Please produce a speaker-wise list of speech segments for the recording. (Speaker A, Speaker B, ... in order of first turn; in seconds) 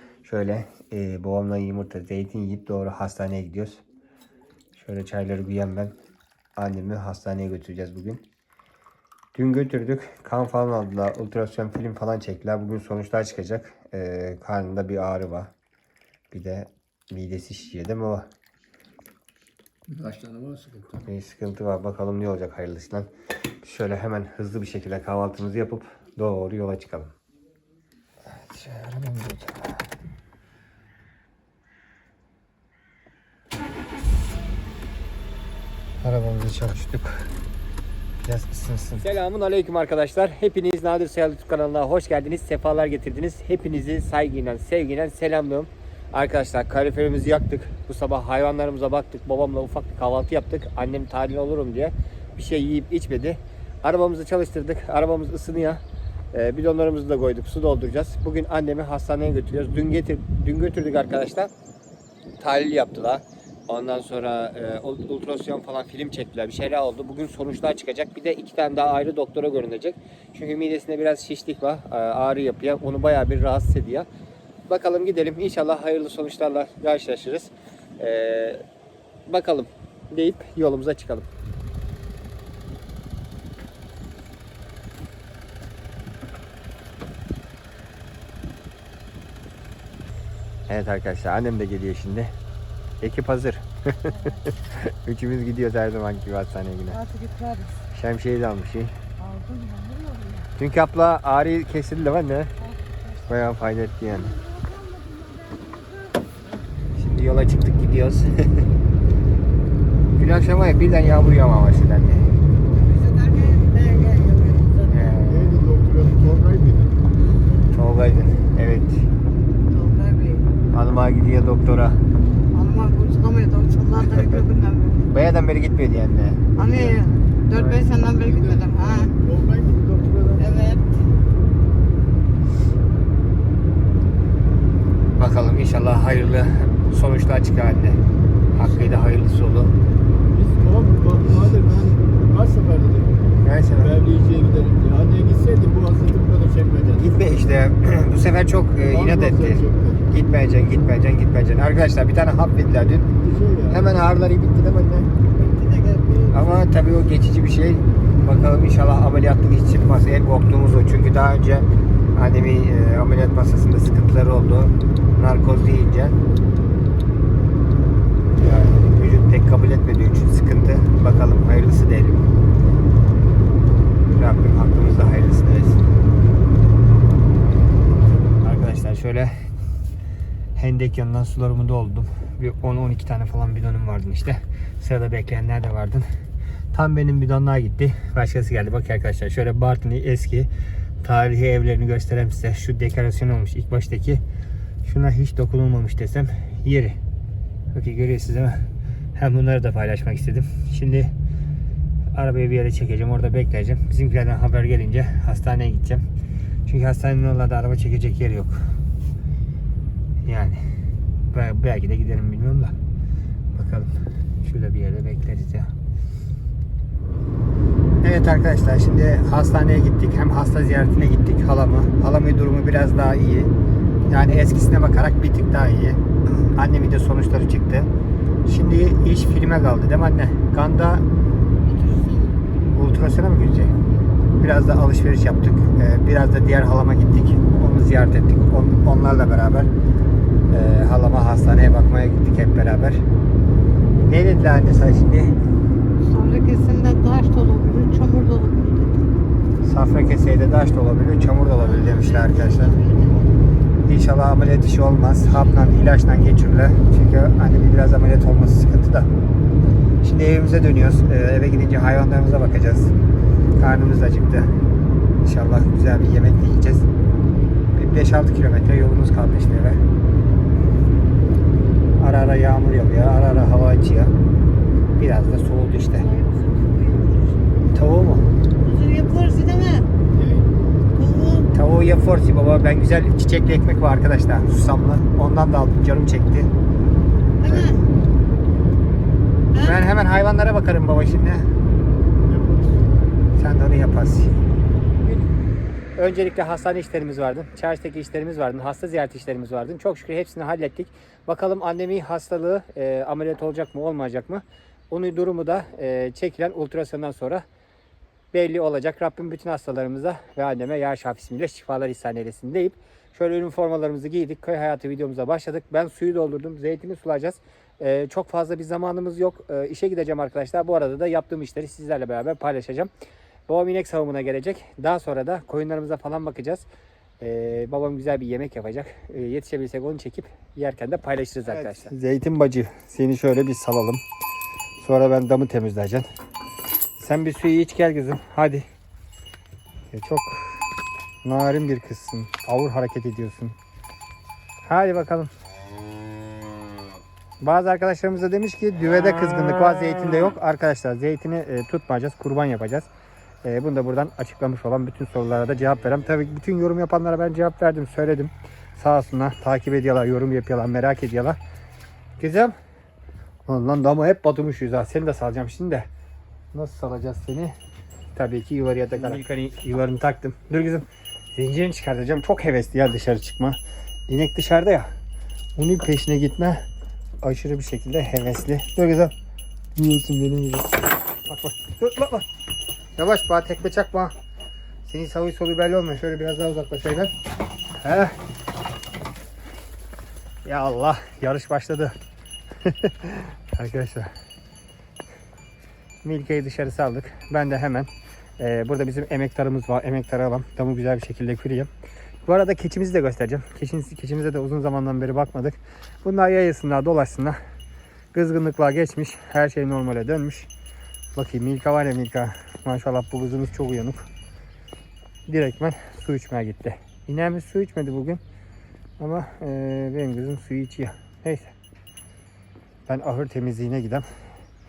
Speaker A: 0.2-3.8, 4.8-6.0, 6.6-8.2, 9.3-15.5, 16.3-18.3, 21.0-23.1, 23.6-27.1, 28.2-29.7, 36.0-37.3, 38.2-55.8, 56.3-61.5, 62.4-74.1, 74.7-78.6, 79.3-81.3, 90.7-92.3, 93.0-97.0, 97.9-99.0, 100.6-102.5, 103.3-104.4, 107.0-108.7, 110.2-112.3, 114.9-115.6, 117.7-119.0, 120.7-122.0, 124.0-124.5, 125.1-127.0, 127.5-127.8, 135.2-138.0, 138.5-139.7, 143.4-144.0, 147.0-153.1, 153.7-155.1, 156.3-166.2, 168.4-172.3, 174.1-175.8, 178.4-179.3, 180.6-186.1, 186.7-190.5, 191.0-194.2, 194.8-197.0, 197.7-198.6, 199.2-201.1, 202.2-206.1, 206.7-208.6, 210.2-210.6, 211.3-212.8, 213.5-213.9, 214.4-215.7, 218.0-223.5, 224.1-227.9, 228.4-231.1, 232.7-233.7, 234.4-239.7, 240.5-243.0, 244.1-245.4, 249.6-252.8, 253.9-259.1, 260.0-262.9, 263.6-264.5, 265.2-266.9, 267.7-269.8, 272.0-274.1, 275.0-276.1, 277.7-278.3, 281.5-286.5, 287.4-287.8, 289.6-291.5, 293.4-294.4, 296.0-307.4, 308.3-322.9, 323.5-326.6, 327.2-334.0, 334.8-336.1, 337.0-338.7, 339.9-340.6, 341.2-343.6, 344.7-345.3, 347.4-352.9, 353.4-361.4, 362.2-362.6, 363.5-365.9, 366.5-367.6, 368.1-374.9, 375.6-376.6, 377.2-379.1, 379.8-382.3, 383.0-384.1, 384.9-387.1, 387.8-388.1, 390.4-391.9, 392.6-394.1, 396.0-401.7, 402.3-407.4, 408.1-410.5, 411.1-414.1, 415.3-418.2, 419.0-421.5, 422.9-424.1
Speaker B: 19.9-20.9, 115.3-117.0, 127.5-130.8, 140.3-143.2, 143.8-147.2, 148.9-150.1, 153.2-153.9, 155.4-156.6, 280.1-280.5, 292.3-292.8
Speaker C: 96.9-97.8, 99.2-100.5, 102.6-103.3, 104.4-106.3, 112.7-115.2, 119.7-120.5, 122.5-125.1, 126.6-129.1, 130.4-130.8, 231.7-232.3, 246.0-249.1, 251.5-253.2, 275.9-277.4, 278.6-279.9, 280.9-281.5, 287.4-287.8, 289.5-289.8